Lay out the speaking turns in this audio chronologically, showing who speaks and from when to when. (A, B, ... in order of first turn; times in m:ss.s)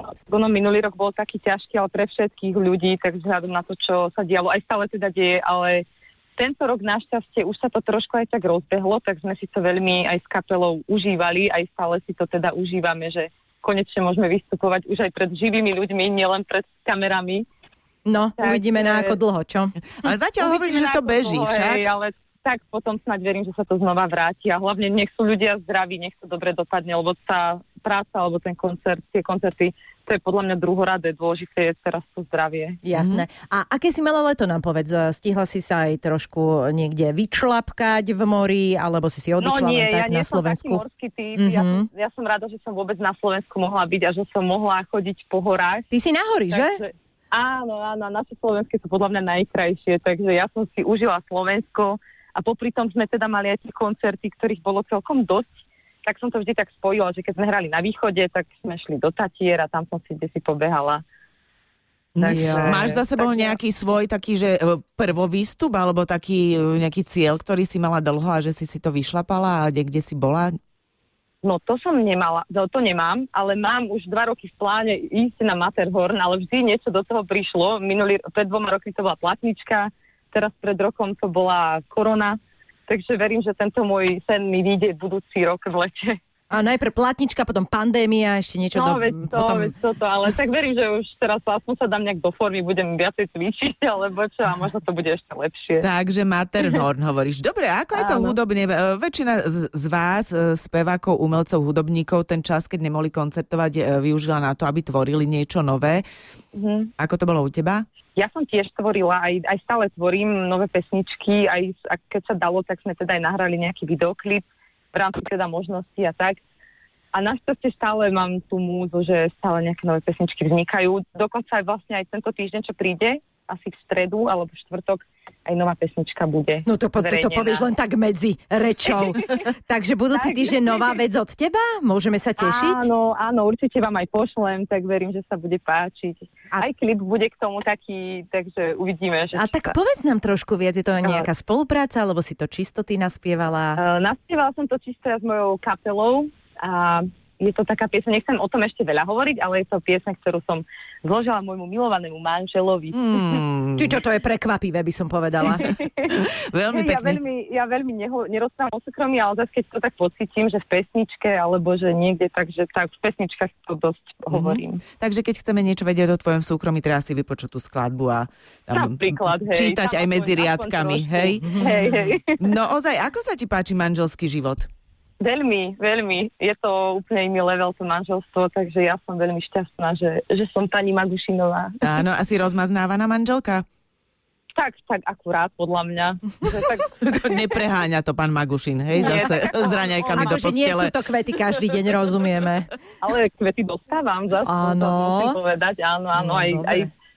0:00.2-0:05.9 A
0:06.4-0:17.5 A
0:18.0-0:19.8 B
0:18.4-0:19.2 A
0:20.0-0:21.9 C
0:20.4-0:32.8 A
0:32.8-0:40.8 B
0:33.0-0:33.2 C
0:39.4-0:45.9 A
0:41.4-0:41.9 B
0:45.9-0:46.8 B
0:46.5-0:55.5 A
0:56.0-1:01.0 A
1:02.2-1:10.5 C
1:02.2-1:03.6 A
1:02.2-1:02.9 B
1:11.4-1:26.2 A
1:26.5-1:29.7 B
1:28.7-1:35.9 A
1:35.8-1:46.0 C
1:37.9-1:38.4 A
1:46.5-1:46.9 A
1:47.0-1:47.8 C
1:48.2-1:56.4 A
1:57.1-2:07.7 A
2:06.7-2:12.9 B
2:08.9-2:09.5 A
2:10.1-2:11.0 A
2:12.4-2:19.8 A
2:19.3-2:23.8 B
2:21.0-2:21.3 A
2:23.8-2:33.4 A
2:32.9-2:34.0 C
2:33.8-2:35.7 B
2:35.4-2:36.2 A
2:35.7-2:37.2 C
2:36.7-2:44.8 A
2:44.3-2:51.9 C
2:48.7-2:52.4 A
2:51.4-2:51.9 B
2:52.4-2:54.7 C
2:55.2-3:01.9 A
3:01.8-3:03.6 C
3:04.6-3:06.9 A
3:07.0-3:11.0 C
3:09.0-3:10.5 A
3:09.0-3:09.3 B
3:10.1-3:12.7 B
3:13.0-3:16.9 A
3:14.4-3:15.4 B
3:16.2-3:16.9 B